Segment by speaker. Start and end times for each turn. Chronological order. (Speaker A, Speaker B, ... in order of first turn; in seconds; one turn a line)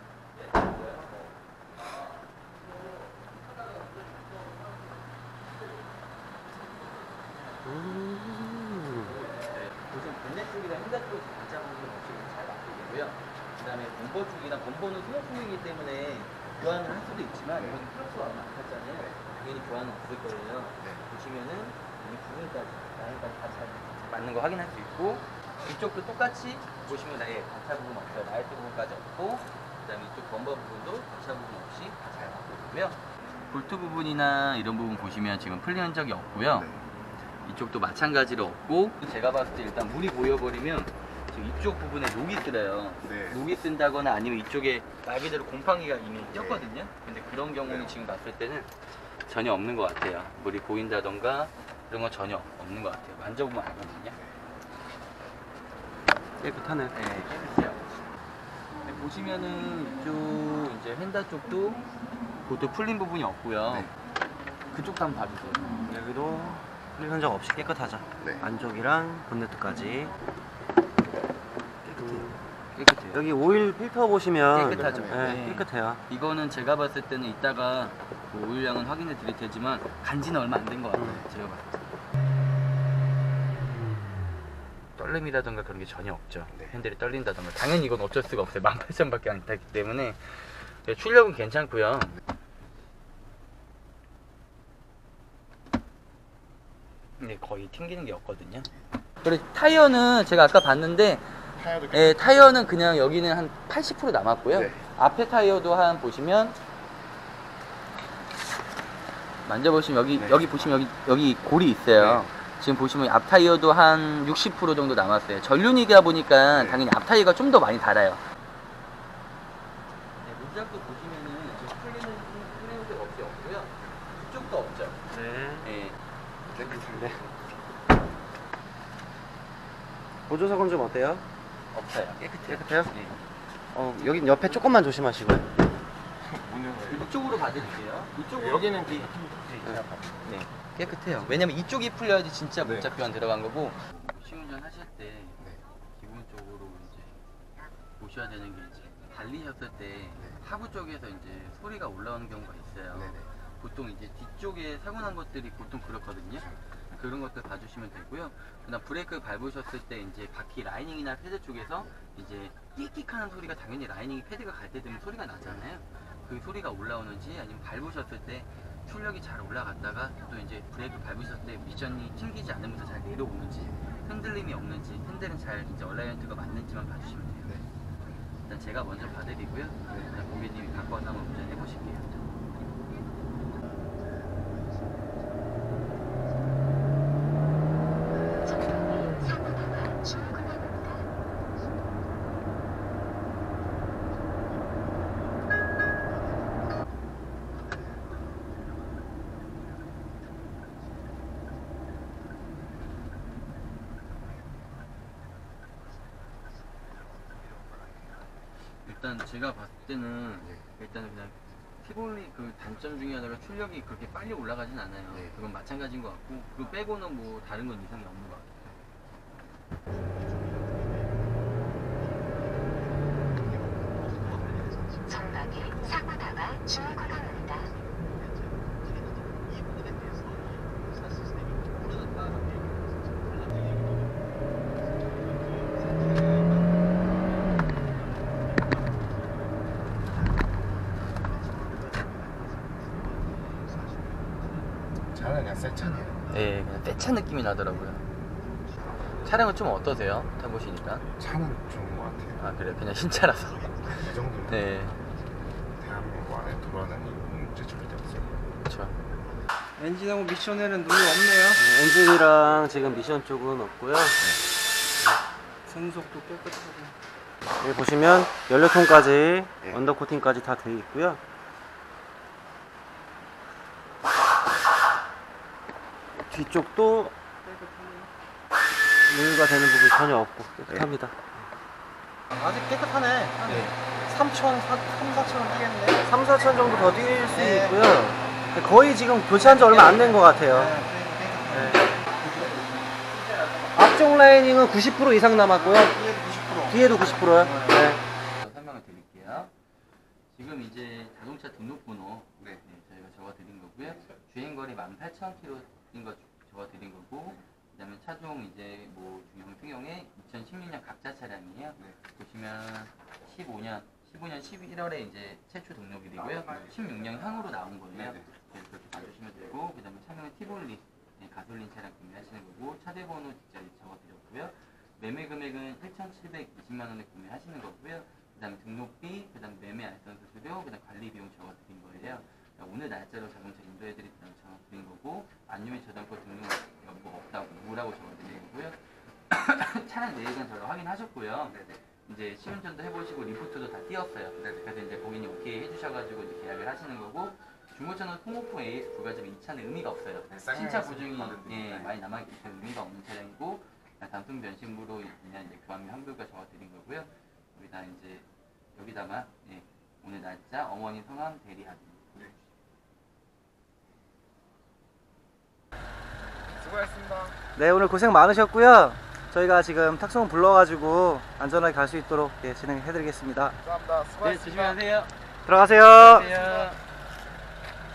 Speaker A: 0.3-5.0
Speaker A: 6.7-7.9
Speaker B: 7.6-9.1
Speaker A: 8.9-36.8
Speaker C: 17.5-17.8
Speaker C: 36.5-36.8
Speaker A: 37.4-54.2
Speaker C: 43.0-43.4
Speaker C: 46.3-46.7
Speaker C: 47.6-47.9
Speaker B: 56.4-56.9
Speaker A: 56.9-57.9
Speaker A: 58.8-61.8
Speaker A: 62.5-64.0
Speaker A: 64.7-65.8
Speaker B: 65.8-70.1
Speaker C: 68.2-68.4
Speaker A: 71.8-73.2
Speaker B: 72.0-72.3
Speaker B: 73.1-76.0
Speaker A: 74.5-81.8
Speaker C: 74.5-75.4
Speaker B: 80.9-81.2
Speaker A: 85.0-92.2
Speaker A: 97.2-98.7
Speaker A: 99.2-106.6
Speaker C: 101.5-102.7
Speaker C: 104.5-104.8
Speaker A: 109.4-118.2
Speaker C: 110.2-110.6
Speaker C: 112.0-112.3
Speaker C: 116.5-116.8
Speaker A: 120.2-125.0
Speaker B: 125.1-125.7
Speaker A: 125.6-126.0
Speaker C: 126.5-127.2
Speaker B: 126.9-127.2
Speaker B: 130.3-131.2
Speaker A: 131.7-133.2
Speaker B: 132.4-132.9
Speaker B: 133.7-135.5
Speaker A: 134.0-134.7
Speaker C: 136.2-137.1
Speaker A: 136.8-147.3
Speaker C: 138.3-140.3
Speaker C: 142.6-142.9
Speaker A: 148.0-177.5
Speaker C: 152.9-153.3
Speaker A: 178.4-182.2
Speaker A: 208.8-218.6
Speaker D: 224.0-227.6
Speaker C: 245.1-246.3
Speaker A: 246.3-248.0
Speaker A: 249.1-251.1
Speaker C: 251.2-252.4
Speaker A: 252.4-253.8
Speaker C: 253.9-254.6
Speaker A: 254.5-255.0
Speaker C: 255.8-258.4
Speaker A: 258.7-258.9
Speaker E: 259.8-261.6
Speaker B: 261.6-264.2
Speaker C: 264.2-264.4
Speaker E: 265.6-266.9
Speaker B: 267.6-271.2
Speaker B: 276.3-277.1
Speaker E: 277.4-278.1
Speaker B: 279.1-281.1
Speaker E: 282.3-286.0
Speaker B: 286.0-290.8
Speaker E: 287.3-287.8
Speaker E: 289.3-292.6
Speaker B: 291.5-291.9
Speaker A: 292.3-292.6
Speaker B: 293.7-295.9
Speaker E: 295.8-297.8
Speaker B: 296.7-298.0
Speaker A: 298.4-299.5
Speaker A: 300.3-362.3
Speaker C: 341.5-341.8
Speaker C: 344.4-344.6
Speaker C: 350.3-351.9
Speaker C: 366.5-367.4
Speaker B: 367.6-373.6
Speaker C: 373.6-374.8
Speaker A: 374.2-375.1
Speaker B: 375.4-376.2
Speaker A: 375.7-376.8
Speaker C: 376.0-376.7